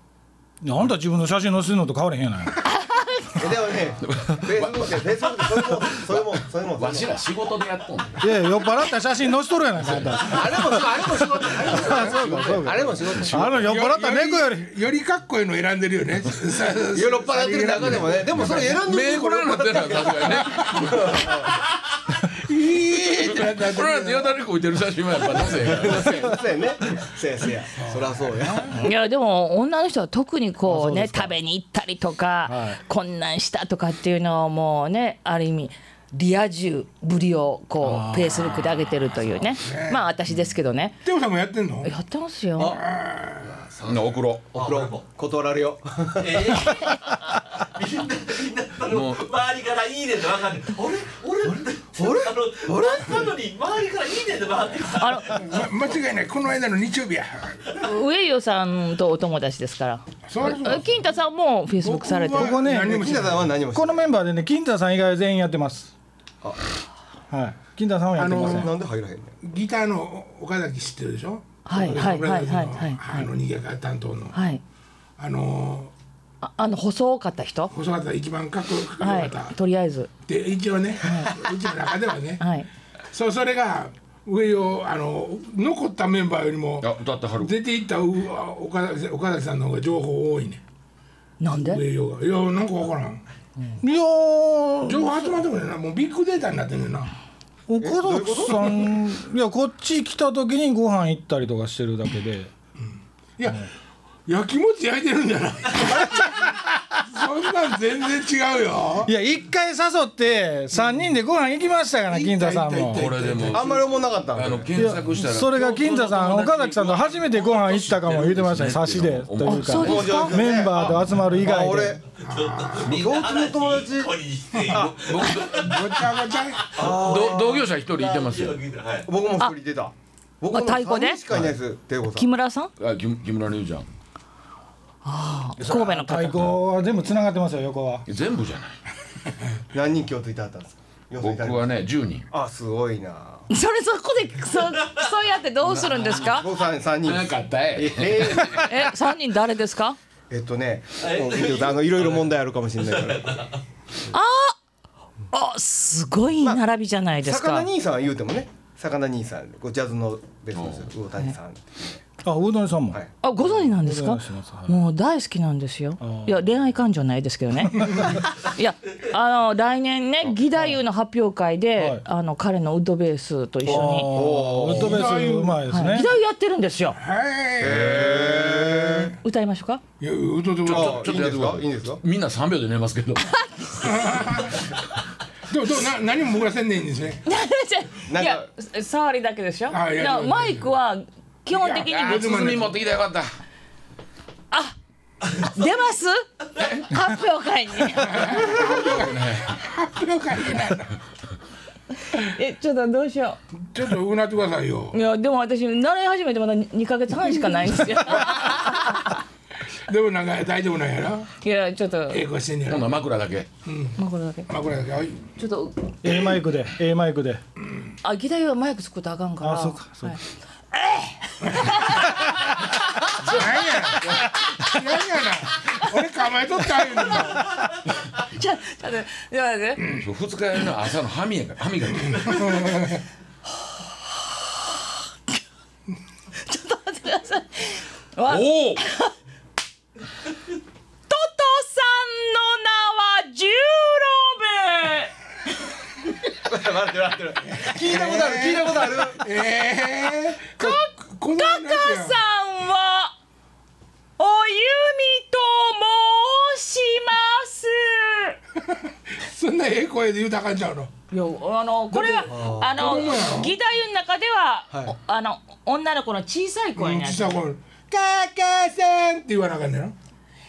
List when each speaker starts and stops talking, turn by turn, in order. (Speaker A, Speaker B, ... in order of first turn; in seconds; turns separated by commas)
Speaker A: 0.6-2.6, Speaker B: 2.7-3.4, Speaker C: 3.4-7.2, Speaker D: 4.0-8.2, Speaker A: 8.2-10.8, Speaker D: 9.8-13.6, Speaker C: 10.1-13.6, Speaker A: 11.4-14.7, Speaker E: 13.6-18.8, Speaker C: 16.9-21.5, Speaker D: 17.9-21.4, Speaker E: 20.3-20.9, Speaker E: 22.3-24.4, Speaker D: 23.2-26.4, Speaker C: 25.4-28.8, Speaker E: 27.8-28.8, Speaker B: 28.7-41.0, Speaker A: 30.6-31.3, Speaker A: 32.5-32.8, Speaker A: 37.8-39.0, Speaker E: 39.6-40.0, Speaker E: 41.0-41.9, Speaker B: 41.8-42.8, Speaker C: 42.6-42.9, Speaker E: 42.6-43.5, Speaker D: 43.8-44.5, Speaker C: 44.5-46.7, Speaker F: 44.5-45.0, Speaker F: 46.2-55.6, Speaker D: 48.8-49.3, Speaker C: 52.0-53.4, Speaker B: 55.0-55.5, Speaker E: 55.3-57.7, Speaker B: 57.8-62.6, Speaker E: 60.3-61.0, Speaker E: 61.8-63.6, Speaker A: 62.3-63.1, Speaker C: 62.7-64.1, Speaker A: 63.7-65.9, Speaker A: 67.3-68.7, Speaker E: 68.2-68.7, Speaker C: 68.3-69.3, Speaker E: 69.4-74.4, Speaker B: 71.6-73.0, Speaker B: 74.3-74.6, Speaker E: 75.2-75.9, Speaker B: 76.4-77.7, Speaker E: 77.7-79.5, Speaker B: 79.0-80.1, Speaker E: 80.3-82.4, Speaker B: 81.0-81.4, Speaker B: 82.4-82.7, Speaker E: 83.1-90.6, Speaker D: 86.8-87.5, Speaker B: 91.4-91.8, Speaker E: 91.5-93.2, Speaker A: 93.8-95.2, Speaker E: 94.8-97.1, Speaker A: 97.7-102.5, Speaker C: 97.8-98.9, Speaker E: 103.4-103.7, Speaker E: 104.3-109.1, Speaker A: 106.0-106.5, Speaker A: 109.0-113.1, Speaker E: 110.7-111.0, Speaker E: 112.1-113.8, Speaker D: 112.9-120.0, Speaker C: 113.5-114.7, Speaker A: 114.7-122.0, Speaker B: 119.4-120.5, Speaker C: 119.8-122.0, Speaker E: 122.2-123.0, Speaker F: 122.2-129.1, Speaker C: 122.8-124.2, Speaker E: 124.6-124.9, Speaker D: 124.8-125.7, Speaker E: 125.5-126.8, Speaker C: 126.7-127.6, Speaker D: 126.8-128.6, Speaker C: 129.1-132.3, Speaker B: 130.5-131.2, Speaker D: 131.3-131.6, Speaker B: 132.1-132.7, Speaker D: 132.8-133.8, Speaker B: 135.0-136.4, Speaker A: 135.6-138.0, Speaker D: 138.1-138.8, Speaker C: 139.7-143.4, Speaker D: 141.2-142.3, Speaker B: 143.5-146.5, Speaker C: 145.7-148.7, Speaker D: 147.0-148.7, Speaker B: 148.6-150.0, Speaker C: 150.3-153.5, Speaker F: 151.0-153.6, Speaker B: 154.1-154.6, Speaker B: 155.3-157.7, Speaker C: 157.2-162.0, Speaker D: 160.6-160.9, Speaker A: 162.2-164.8, Speaker B: 163.2-174.1, Speaker A: 166.0-166.4, Speaker A: 167.8-168.1, Speaker A: 171.8-172.0, Speaker A: 173.6-176.1, Speaker C: 174.0-175.0, Speaker E: 174.6-175.6, Speaker B: 175.7-177.0, Speaker E: 177.0-179.1, Speaker C: 177.6-179.1, Speaker D: 177.6-178.5, Speaker B: 179.2-179.8, Speaker E: 180.0-181.2, Speaker D: 180.6-183.4, Speaker C: 180.7-182.0, Speaker B: 183.2-184.1, Speaker E: 183.8-184.6, Speaker E: 185.5-187.2, Speaker B: 187.2-192.4, Speaker C: 188.0-188.5, Speaker E: 189.7-190.7, Speaker E: 191.5-192.8, Speaker D: 192.0-193.3, Speaker B: 195.2-198.7, Speaker D: 196.6-196.8, Speaker E: 198.0-200.9, Speaker D: 198.4-199.6, Speaker B: 202.1-203.4, Speaker E: 203.7-204.9, Speaker B: 204.9-209.2, Speaker E: 209.9-211.3, Speaker B: 211.4-212.2, Speaker E: 212.1-213.0, Speaker D: 212.7-213.5, Speaker E: 213.7-214.0, Speaker B: 214.0-214.5, Speaker E: 214.5-215.2, Speaker B: 215.3-216.0, Speaker A: 216.0-217.4, Speaker B: 218.0-220.2, Speaker A: 219.4-220.2, Speaker B: 220.7-224.8, Speaker E: 221.5-221.8, Speaker E: 223.2-227.6, Speaker B: 225.5-225.9, Speaker B: 226.8-227.5, Speaker B: 228.2-229.8, Speaker D: 230.0-232.6, Speaker E: 232.0-233.0, Speaker B: 233.6-234.9, Speaker B: 236.4-239.1, Speaker D: 238.3-238.8, Speaker B: 241.1-245.1, Speaker C: 246.4-249.3, Speaker E: 247.5-252.2, Speaker B: 250.6-253.1, Speaker B: 254.2-258.4, Speaker E: 258.7-260.9, Speaker B: 261.1-267.4, Speaker E: 261.9-263.6, Speaker C: 262.3-262.8, Speaker E: 266.8-269.9